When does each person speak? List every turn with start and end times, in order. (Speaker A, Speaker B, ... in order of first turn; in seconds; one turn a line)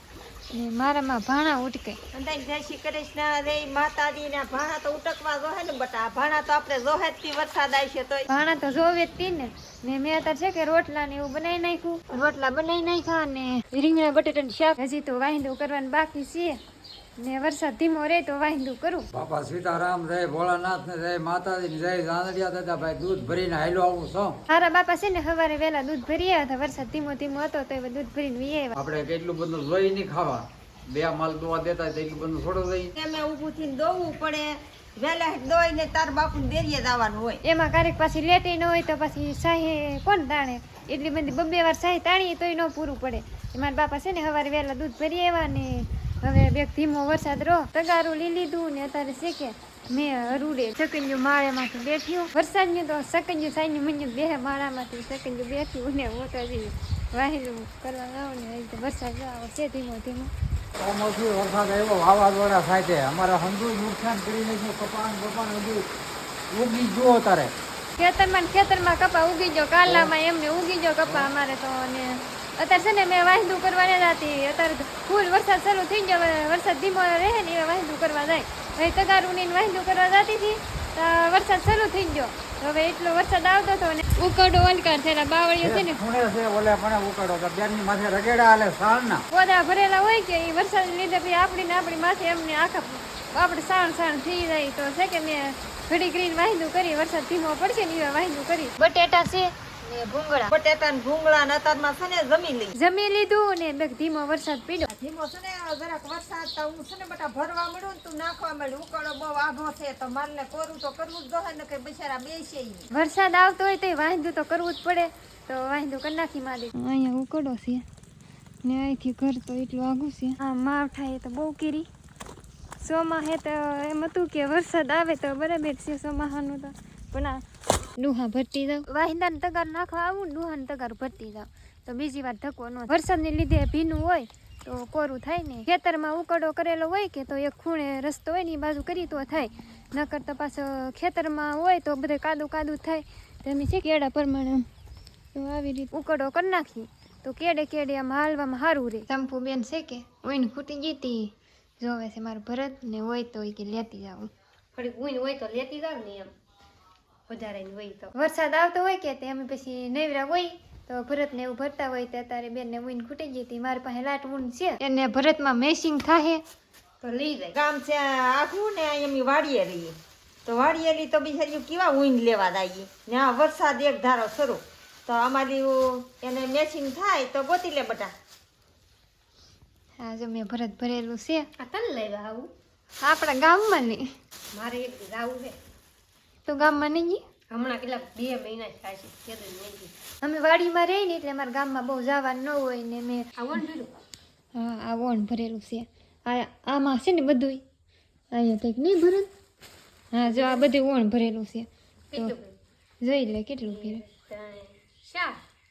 Speaker A: 0.5-2.0
Speaker B: 2.1-8.2
Speaker A: 8.3-16.6
Speaker A: 17.2-19.1
Speaker C: 19.1-24.4
Speaker A: 24.5-28.8
Speaker C: 28.8-32.9
Speaker B: 32.9-37.4
Speaker A: 37.4-60.3
Speaker C: 60.8-65.9
Speaker C: 66.5-67.5
Speaker A: 68.0-86.0
Speaker C: 85.6-89.2
Speaker A: 89.3-100.5
Speaker B: 100.5-102.7
Speaker A: 102.8-104.9
Speaker B: 104.9-112.9
Speaker A: 112.9-117.8
Speaker A: 118.6-121.9
Speaker A: 122.8-127.4
Speaker A: 128.0-144.7
Speaker A: 145.3-154.3
Speaker D: 154.7-156.3
Speaker D: 157.3-158.1
Speaker A: 158.1-166.4
Speaker D: 167.0-167.5
Speaker B: 167.5-178.1
Speaker A: 180.0-181.5
Speaker D: 181.6-182.5
Speaker A: 183.0-184.1
Speaker D: 184.5-185.5
Speaker A: 186.4-187.2
Speaker D: 187.5-189.9
Speaker A: 190.2-193.2
Speaker D: 193.4-193.9
Speaker A: 194.5-197.6
Speaker A: 198.3-199.3
Speaker A: 200.1-202.3
Speaker D: 200.2-200.7
Speaker D: 202.1-202.6
Speaker A: 203.0-204.0
Speaker D: 203.6-205.4